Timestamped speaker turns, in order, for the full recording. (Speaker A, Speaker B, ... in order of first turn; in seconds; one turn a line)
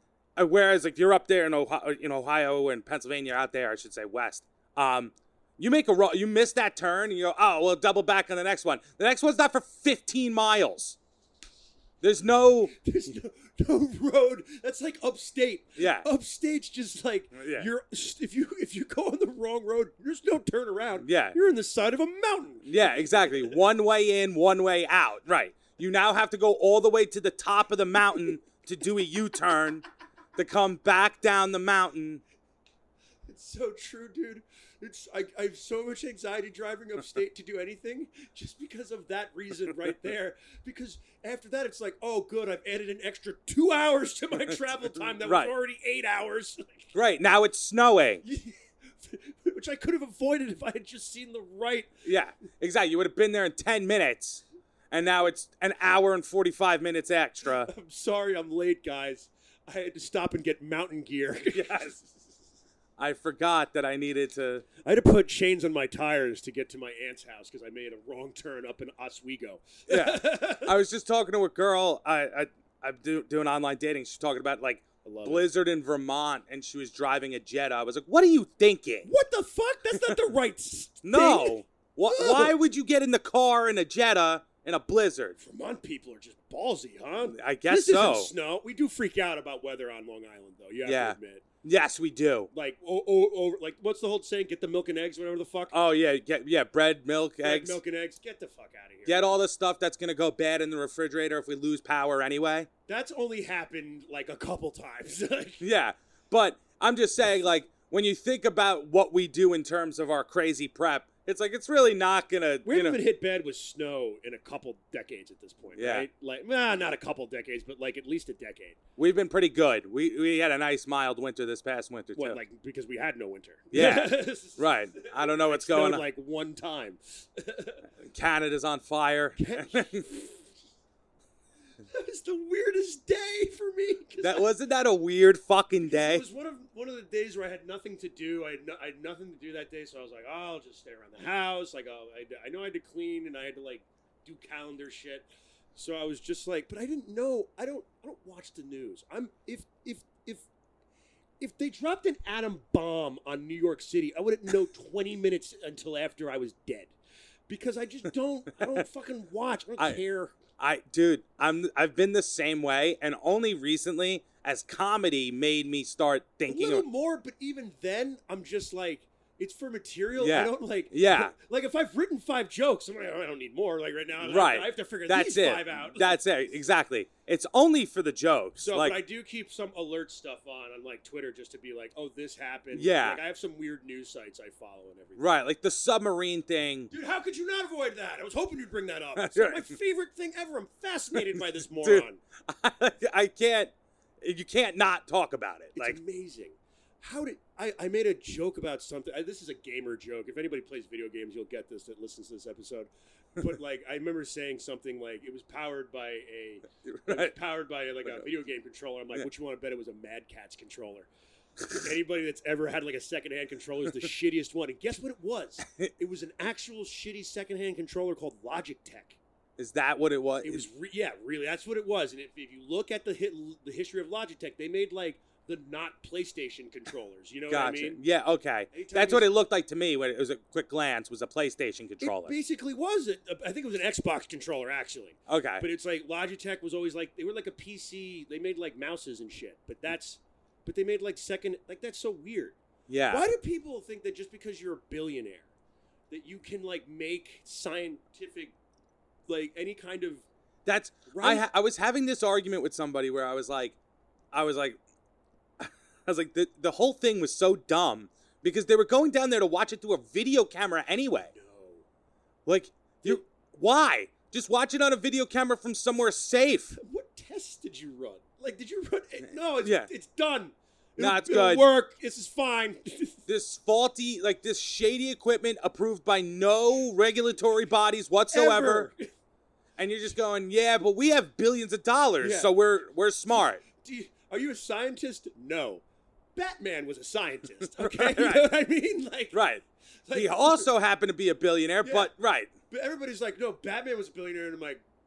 Speaker A: 0.4-11.0
Speaker A: 12.0-12.8
Speaker B: 12.7-23.6
Speaker A: 15.8-16.1
Speaker A: 17.3-17.7
Speaker A: 21.0-21.4
Speaker A: 22.7-32.2
Speaker B: 33.3-46.9
Speaker A: 45.1-45.5
Speaker A: 46.9-48.2
Speaker B: 48.2-52.0
Speaker A: 52.0-57.7
Speaker B: 57.5-62.2
Speaker A: 61.5-62.0
Speaker A: 63.0-64.7
Speaker B: 64.8-70.8
Speaker A: 69.9-79.1
Speaker B: 75.0-75.5
Speaker B: 79.0-82.5
Speaker A: 81.0-85.4
Speaker B: 85.4-91.5
Speaker A: 87.3-88.3
Speaker A: 90.8-92.5
Speaker B: 92.5-95.8
Speaker A: 95.7-97.8
Speaker B: 97.4-99.4
Speaker A: 99.1-102.7
Speaker B: 102.9-105.6
Speaker A: 105.6-113.0
Speaker B: 112.7-118.8
Speaker A: 115.8-116.1
Speaker A: 119.0-122.4
Speaker B: 122.2-127.8
Speaker A: 123.7-126.0
Speaker A: 128.0-130.1
Speaker B: 129.4-130.5
Speaker B: 131.9-134.5
Speaker A: 134.2-136.2
Speaker B: 135.8-150.4
Speaker B: 151.4-156.9
Speaker B: 157.5-160.4
Speaker A: 160.6-166.8
Speaker B: 166.5-176.2
Speaker A: 170.2-171.3
Speaker A: 174.2-179.0
Speaker B: 178.6-185.3
Speaker A: 182.8-183.2
Speaker A: 185.2-186.9
Speaker B: 186.9-192.2
Speaker A: 189.2-189.7
Speaker A: 191.3-196.0
Speaker B: 195.8-211.1
Speaker A: 206.8-207.3
Speaker B: 211.7-219.2
Speaker A: 219.6-220.7
Speaker B: 220.4-228.0
Speaker A: 227.5-232.3
Speaker B: 228.7-229.3
Speaker B: 232.0-242.6
Speaker A: 235.3-235.7
Speaker A: 242.9-243.2
Speaker B: 243.1-245.5
Speaker B: 246.1-248.5
Speaker B: 249.3-250.3
Speaker A: 250.7-253.8
Speaker B: 251.1-251.5
Speaker A: 254.3-254.8
Speaker A: 255.6-261.3
Speaker B: 261.3-261.9
Speaker A: 262.5-266.8
Speaker B: 266.7-273.3
Speaker A: 269.6-269.9
Speaker A: 271.0-271.6
Speaker A: 273.3-278.9
Speaker B: 278.3-279.1
Speaker A: 279.8-283.6
Speaker B: 282.2-282.5
Speaker B: 283.6-285.8
Speaker B: 286.4-289.4
Speaker A: 287.8-288.4
Speaker A: 289.3-292.5
Speaker B: 290.1-290.7
Speaker B: 291.8-292.1
Speaker B: 292.7-294.8